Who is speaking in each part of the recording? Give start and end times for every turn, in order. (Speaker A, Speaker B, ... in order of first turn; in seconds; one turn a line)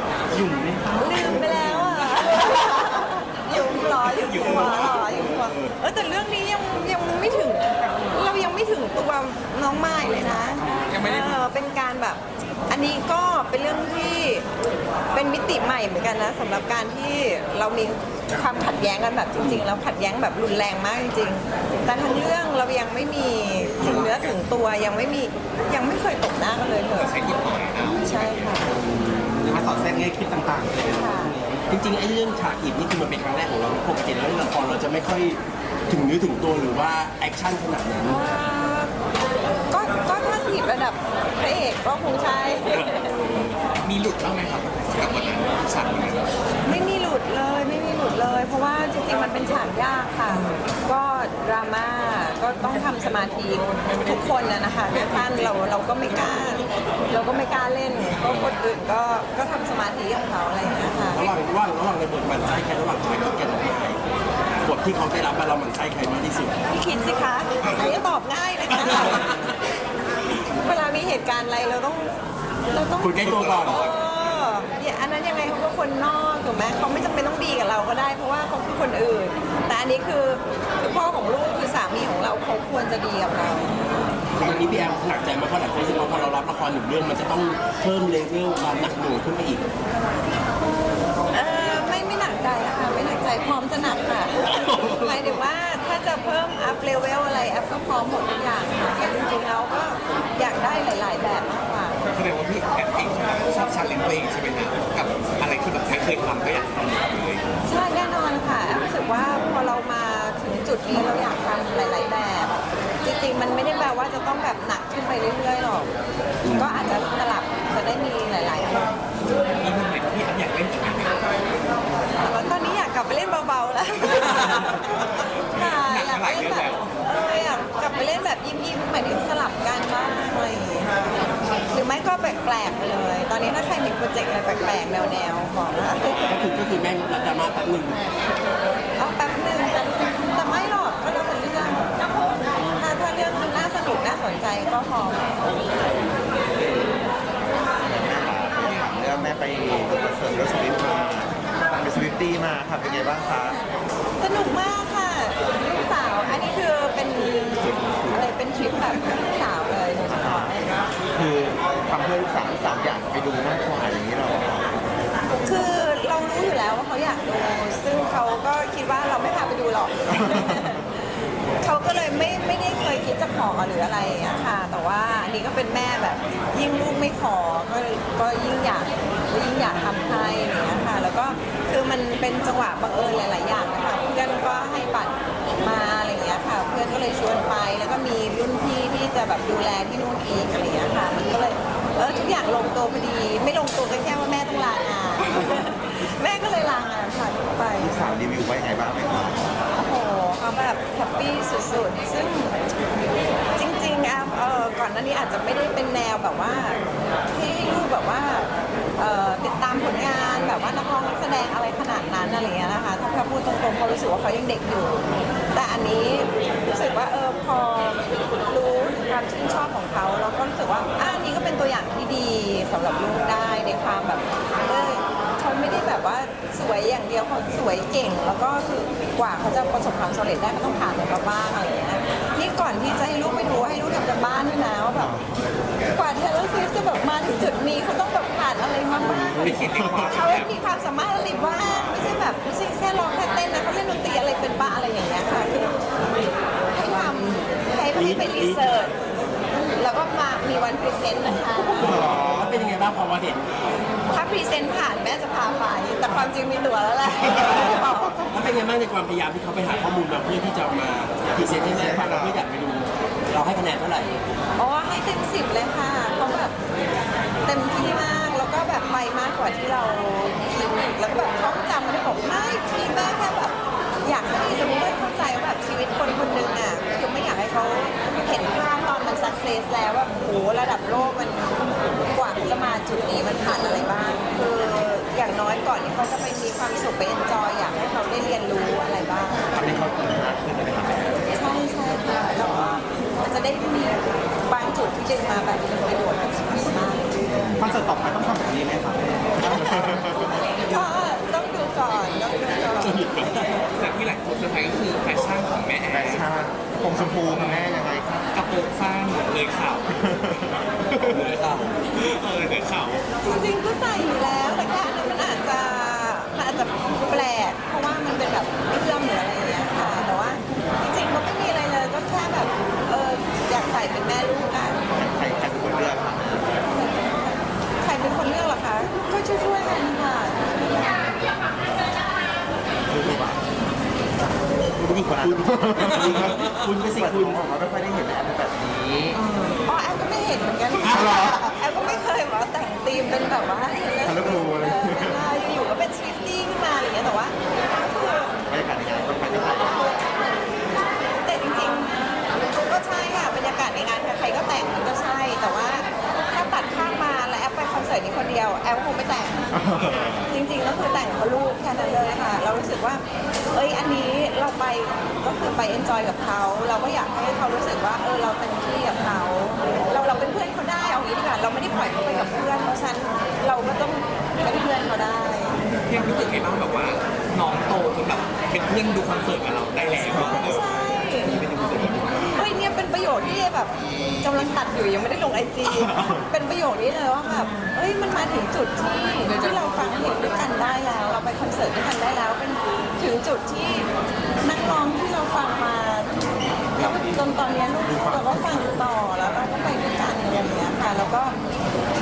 Speaker A: 0.3-1.9
Speaker B: 0.9-14.4
Speaker C: 4.0-5.7
Speaker D: 4.3-4.8
Speaker D: 10.9-11.4
Speaker B: 15.1-27.2
Speaker C: 19.4-19.6
Speaker C: 23.8-24.4
Speaker D: 26.9-28.6
Speaker B: 27.8-28.7
Speaker C: 28.8-29.9
Speaker A: 29.3-31.6
Speaker B: 30.9-31.3
Speaker C: 31.7-38.2
Speaker B: 38.0-38.9
Speaker B: 39.7-43.1
Speaker C: 42.7-43.6
Speaker D: 43.8-46.3
Speaker B: 46.6-61.3
Speaker C: 61.1-64.0
Speaker C: 64.6-66.7
Speaker B: 66.7-69.4
Speaker C: 68.9-69.3
Speaker B: 70.5-72.1
Speaker B: 72.7-83.8
Speaker C: 73.0-73.8
Speaker D: 73.2-74.0
Speaker C: 84.3-89.6
Speaker B: 91.3-102.0
Speaker C: 94.4-95.4
Speaker D: 102.1-107.4
Speaker B: 107.6-115.9
Speaker C: 116.4-116.9
Speaker B: 116.5-119.0
Speaker D: 119.2-121.2
Speaker B: 122.2-131.0
Speaker D: 124.3-124.8
Speaker D: 125.5-126.9
Speaker B: 131.7-136.4
Speaker C: 136.2-138.1
Speaker B: 139.0-142.1
Speaker B: 142.8-145.5
Speaker E: 147.8-153.7
Speaker B: 154.2-160.7
Speaker E: 157.7-158.2
Speaker E: 160.2-160.5
Speaker E: 161.1-164.8
Speaker B: 165.4-171.1
Speaker E: 170.1-170.6
Speaker B: 171.6-197.9
Speaker E: 197.8-199.5
Speaker B: 199.7-202.6
Speaker B: 203.6-235.2
Speaker E: 234.9-235.3
Speaker B: 235.9-245.8
Speaker E: 239.0-240.3
Speaker D: 239.2-240.5
Speaker B: 246.7-248.9
Speaker C: 247.9-248.9
Speaker B: 249.5-252.1
Speaker C: 251.7-253.6
Speaker E: 251.8-252.7
Speaker B: 254.1-258.3
Speaker C: 258.3-264.2
Speaker E: 261.4-262.4
Speaker B: 264.6-266.5
Speaker B: 267.4-289.5
Speaker E: 289.5-291.3
Speaker B: 291.3-297.1
Speaker E: 297.3-297.6
Speaker A: 297.6-299.5
Speaker E: 299.4-300.3
Speaker B: 300.6-303.0
Speaker C: 302.8-303.6
Speaker D: 303.7-306.3
Speaker E: 305.9-308.3
Speaker D: 307.2-307.6
Speaker D: 308.3-309.9
Speaker E: 309.9-311.2
Speaker C: 311.0-311.8
Speaker D: 311.9-313.1
Speaker B: 313.2-324.8
Speaker E: 324.9-326.6
Speaker B: 326.6-330.7
Speaker E: 330.8-331.6
Speaker E: 332.9-333.4
Speaker C: 334.8-337.4
Speaker E: 334.8-339.2
Speaker B: 339.5-348.3
Speaker E: 340.8-341.5
Speaker C: 340.9-341.1
Speaker E: 344.0-345.2
Speaker E: 348.4-350.1
Speaker B: 351.2-359.5
Speaker E: 359.5-360.3
Speaker B: 360.2-375.6
Speaker D: 375.9-380.6
Speaker E: 380.1-380.6
Speaker B: 380.4-381.4
Speaker E: 381.2-382.3
Speaker B: 382.3-393.9
Speaker B: 394.4-396.2
Speaker B: 396.7-401.3